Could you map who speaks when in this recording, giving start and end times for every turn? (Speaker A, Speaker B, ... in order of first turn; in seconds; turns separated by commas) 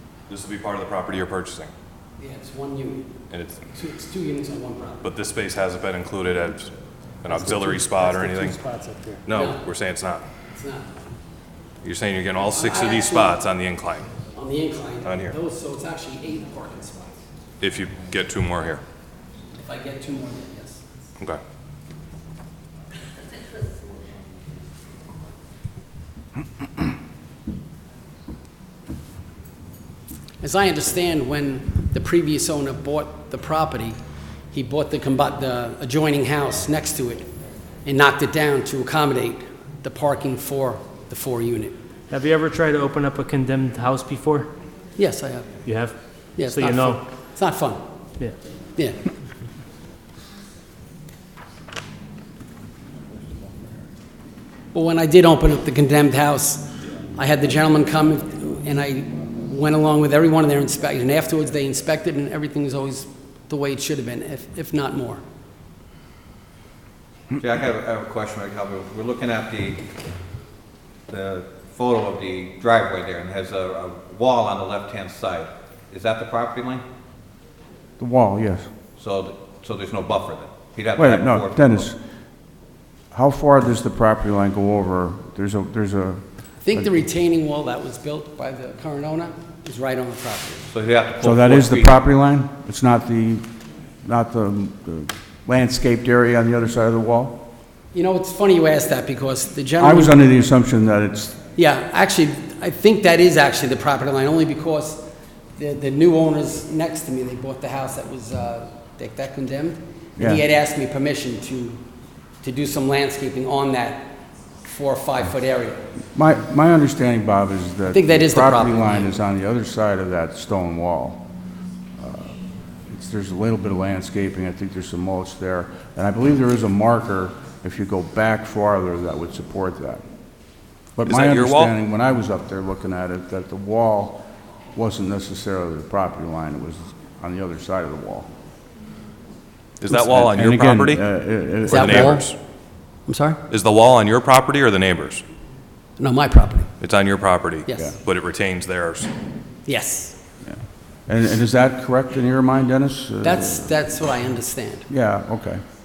Speaker A: 0.3-1.7, Speaker B: 2.2-3.2, Speaker A: 3.3-3.6, Speaker B: 3.7-5.0, Speaker A: 5.0-8.7, Speaker B: 7.3-9.6, Speaker C: 7.5-9.2, Speaker A: 9.2-10.2, Speaker B: 10.5-10.9, Speaker A: 11.8-14.1, Speaker B: 12.5-13.3, Speaker B: 14.3-17.1, Speaker A: 15.0-15.3, Speaker A: 17.6-18.8, Speaker B: 19.6-20.9, Speaker B: 30.4-34.0, Speaker B: 34.5-41.8, Speaker C: 42.1-44.5, Speaker B: 45.0-45.7, Speaker C: 45.6-47.0, Speaker B: 46.3-47.8, Speaker B: 54.7-65.2, Speaker D: 67.4-69.8, Speaker D: 71.1-76.8, Speaker E: 78.0-78.7, Speaker D: 79.0-81.9, Speaker E: 81.0-82.0, Speaker E: 83.1-87.0, Speaker B: 86.6-90.7, Speaker D: 90.7-91.9, Speaker E: 91.2-93.5, Speaker E: 94.0-97.4, Speaker B: 97.9-100.2, Speaker E: 99.8-101.4, Speaker B: 101.5-105.0, Speaker B: 105.6-111.8, Speaker E: 110.2-110.4, Speaker B: 112.4-115.8, Speaker E: 116.1-121.3, Speaker B: 117.9-119.2, Speaker E: 122.0-130.0, Speaker E: 130.9-138.3, Speaker A: 131.0-131.7, Speaker A: 139.8-141.0, Speaker E: 139.8-142.2, Speaker B: 141.7-142.3, Speaker A: 141.7-142.3, Speaker B: 143.1-143.4, Speaker A: 143.5-145.2, Speaker B: 146.0-146.7, Speaker A: 146.8-149.1, Speaker B: 147.7-148.0, Speaker B: 149.7-150.2, Speaker E: 150.4-153.7, Speaker B: 153.2-154.9, Speaker E: 154.9-155.6